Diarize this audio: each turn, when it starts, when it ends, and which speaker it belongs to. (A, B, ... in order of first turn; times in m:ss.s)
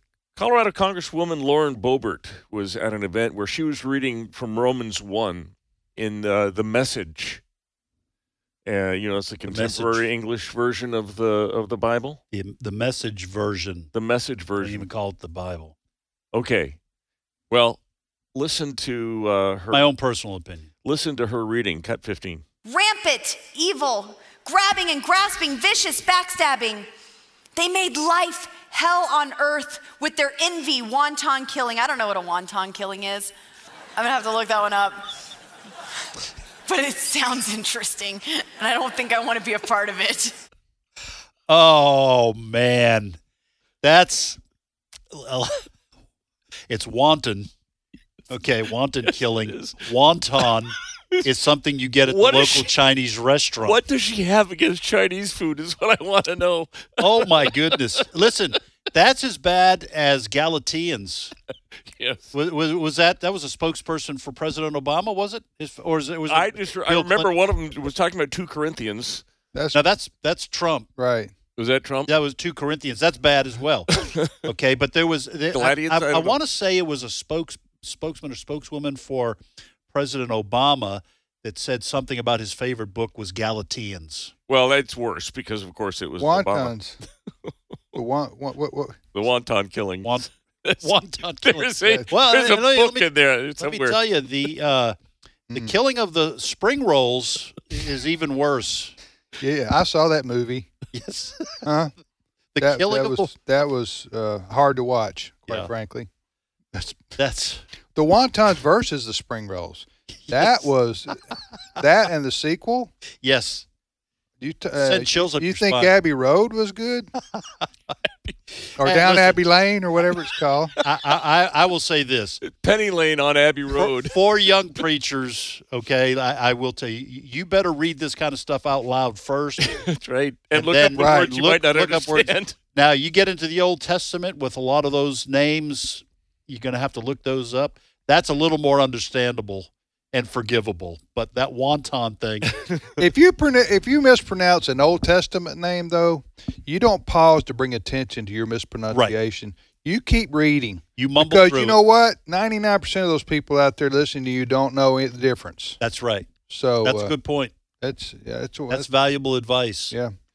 0:00.4-0:07.4 A
0:08.6-0:12.2 A
0:09.5-0:10.0 B
0:12.3-0:13.9 B
0:13.9-0:14.9 A
0:14.6-0:15.8 B
0:16.3-0:16.8 A
0:17.5-0:17.8 A
0:18.4-0:19.8 A
0:19.7-0:20.7 B
0:20.8-0:22.4 A
0:22.7-0:26.9 C
0:27.6-0:33.3 C
0:34.0-0:35.0 C
0:36.7-0:40.4 C
0:41.5-0:43.2 B
0:43.8-0:44.4 B
0:45.1-0:45.7 B
0:46.7-0:47.5 B
0:48.3-0:53.8 B
0:49.5-0:49.8 A
0:52.1-0:52.7 A
0:53.6-0:57.8 A
0:57.0-1:01.4 B
1:02.0-1:02.3 A
1:02.3-1:07.3 B
1:06.3-1:09.2 A
1:09.5-1:09.8 D
1:09.7-1:10.9 B
1:11.0-1:11.3 D
1:11.6-1:12.1 A
1:12.1-1:19.4 B
1:14.0-1:14.4 A
1:15.5-1:16.4 A
1:19.9-1:24.3 B
1:24.5-1:26.8 A
1:26.2-1:27.0 D
1:27.9-1:29.0 D
1:29.1-1:34.0 A
1:30.0-1:33.1 B
1:33.6-1:35.0 B
1:35.5-1:39.0 B
1:39.4-1:40.7 D
1:40.9-1:41.7 B
1:41.6-1:41.9 D
1:42.6-1:43.3 B
1:42.6-1:46.1 D
1:46.7-1:47.2 D
1:47.2-1:47.6 B
1:48.0-1:51.2 D
1:51.8-1:52.9 D
1:53.2-1:53.7 B
1:54.4-1:57.1 D
1:54.8-1:55.9 B
1:57.4-1:57.7 B
1:58.8-2:00.7 D
1:58.8-1:59.4 B
2:00.8-2:02.4 B
2:02.4-2:04.2 A
2:03.8-2:09.7 B
2:09.6-2:12.6 A
2:10.5-2:22.6 B
2:11.0-2:11.3 D
2:23.0-2:35.8 D
2:31.0-2:31.8 B
2:35.8-2:36.3 B
2:36.5-2:37.2 D
2:36.8-2:37.5 B
2:37.8-2:38.9 D
2:38.7-2:40.0 B